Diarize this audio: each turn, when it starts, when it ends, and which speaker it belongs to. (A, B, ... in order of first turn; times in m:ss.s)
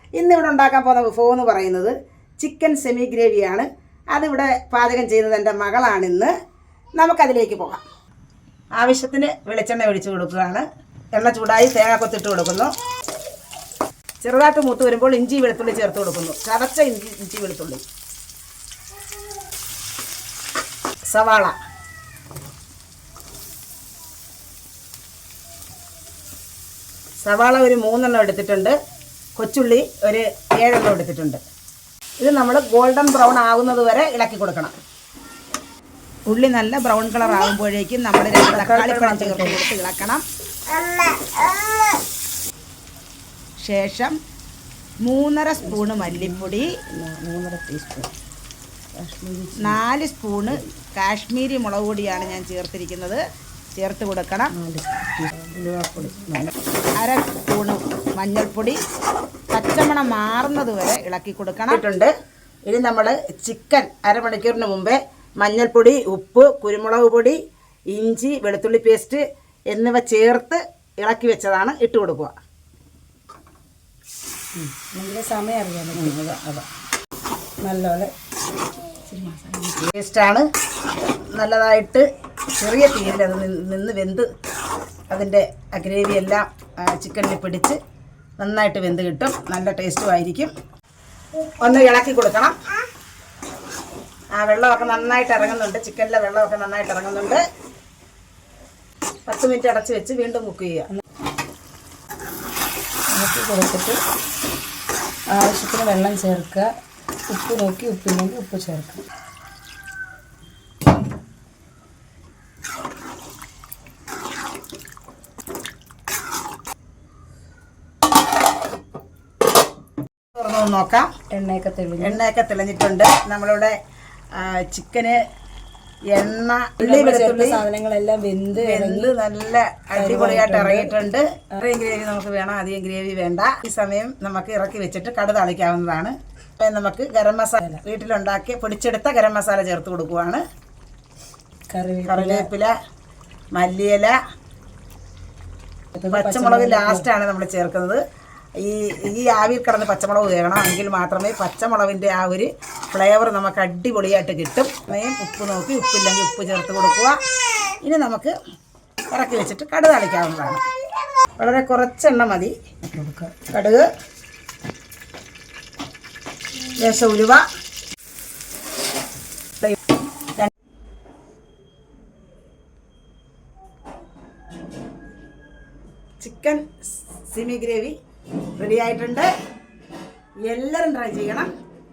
0:00.2-0:06.3 A
0:07.0-0:07.8 A
0:08.8-0:12.7 A
0:14.2-0:17.8 A
0:21.1-0:21.6 A
0:27.2-0:28.8 A
0:29.4-0:31.4 A
0:32.2-0:34.8 A
0:36.3-0:40.2 A
0:38.4-0:39.6 B
0:43.6-0:44.2 A
0:45.0-0:46.8 A
0:45.6-0:48.1 B
0:49.0-0:49.8 B
0:49.6-0:53.2 A
0:53.8-0:54.5 A
0:54.5-0:56.5 B
0:57.0-0:58.8 A
0:59.5-1:02.1 A
1:02.7-1:07.4 A
1:07.9-1:12.3 A
1:14.5-1:16.2 B
1:15.9-1:16.6 A
1:17.6-1:18.1 B
1:19.1-1:19.9 B
1:19.8-1:20.5 A
1:21.3-1:22.1 A
1:22.6-1:24.3 A
1:25.1-1:27.8 A
1:28.4-1:30.5 A
1:31.6-1:32.6 A
1:34.4-1:37.4 A
1:39.3-1:40.9 A
1:43.1-1:44.0 B
1:45.3-1:46.7 B
1:47.3-1:49.0 B
2:00.4-2:01.1 A
2:01.3-2:02.2 B
2:02.0-2:03.8 A
2:04.4-2:05.2 A
2:06.1-2:07.6 A
2:06.8-2:09.1 B
2:08.6-2:20.4 A
2:10.0-2:11.0 B
2:21.7-2:22.5 B
2:22.1-2:22.7 A
2:23.6-2:24.2 A
2:26.0-2:27.1 B
2:26.1-2:28.0 A
2:28.6-2:37.2 A
2:37.8-2:38.4 A
2:39.1-2:40.6 A
2:41.4-2:42.5 A
2:42.9-2:43.4 B
2:43.5-2:43.9 A
2:46.8-2:47.4 A
2:56.2-2:58.0 A
2:58.6-2:59.3 A
3:00.5-3:01.5 A